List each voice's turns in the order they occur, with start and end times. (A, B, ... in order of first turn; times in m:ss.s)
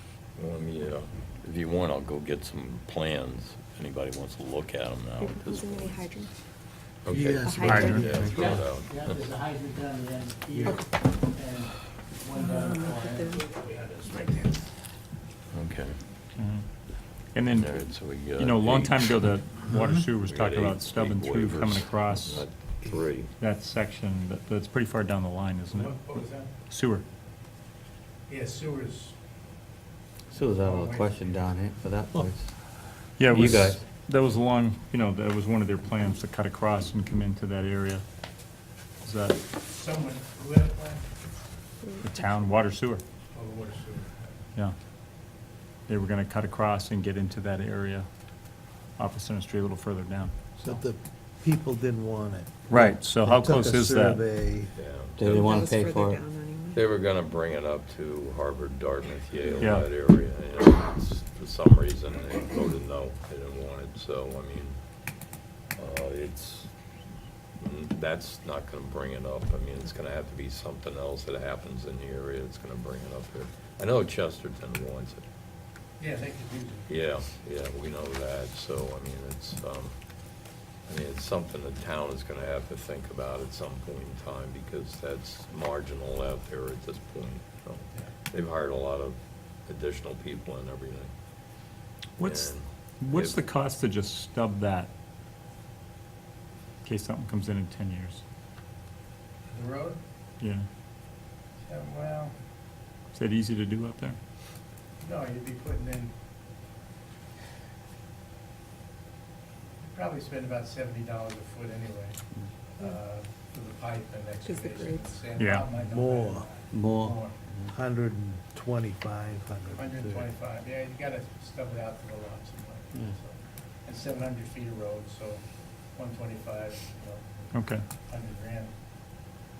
0:00.4-0:06.1 A
0:05.2-0:06.3 B
0:07.0-0:09.3 A
0:07.1-0:08.1 C
0:07.4-0:08.1 B
0:07.6-0:08.1 D
0:08.0-0:08.6 E
0:08.1-0:14.7 F
0:12.4-0:13.5 B
0:14.1-0:14.5 B
0:15.5-0:16.0 A
0:16.4-0:16.7 D
0:17.2-0:22.5 D
0:17.5-0:19.1 A
0:20.2-0:23.3 A
0:23.4-0:27.0 D
0:25.7-0:26.5 F
0:28.3-0:29.2 F
0:30.3-0:32.6 E
0:30.4-0:31.5 F
0:33.2-0:38.0 D
0:33.3-0:33.8 E
0:39.0-0:39.4 D
0:39.6-0:41.0 F
0:41.9-0:42.1 B
0:42.0-0:43.0 D
0:43.3-0:44.4 F
0:45.9-0:48.1 D
0:49.0-0:50.3 D
0:50.6-0:54.7 C
0:52.7-0:54.2 D
0:54.7-0:55.6 A
0:55.2-0:56.2 E
0:55.3-0:56.9 B
0:56.7-1:04.8 A
0:59.6-0:59.9 D
1:05.8-1:06.7 A
1:07.6-1:15.2 A
1:16.0-1:17.1 F
1:16.9-1:20.0 A
1:20.9-1:31.1 A
1:32.2-1:34.9 D
1:32.2-1:33.4 A
1:36.8-1:38.2 D
1:39.5-1:40.0 F
1:40.4-1:40.6 D
1:41.7-1:42.3 F
1:43.1-1:44.2 D
1:45.0-1:46.1 F
1:49.9-1:57.4 F
1:54.4-1:55.3 B
1:55.3-1:55.7 D
1:55.8-1:56.5 C
1:56.7-1:57.7 E
1:57.7-2:00.3 C
1:59.7-2:08.8 F
2:07.5-2:07.8 D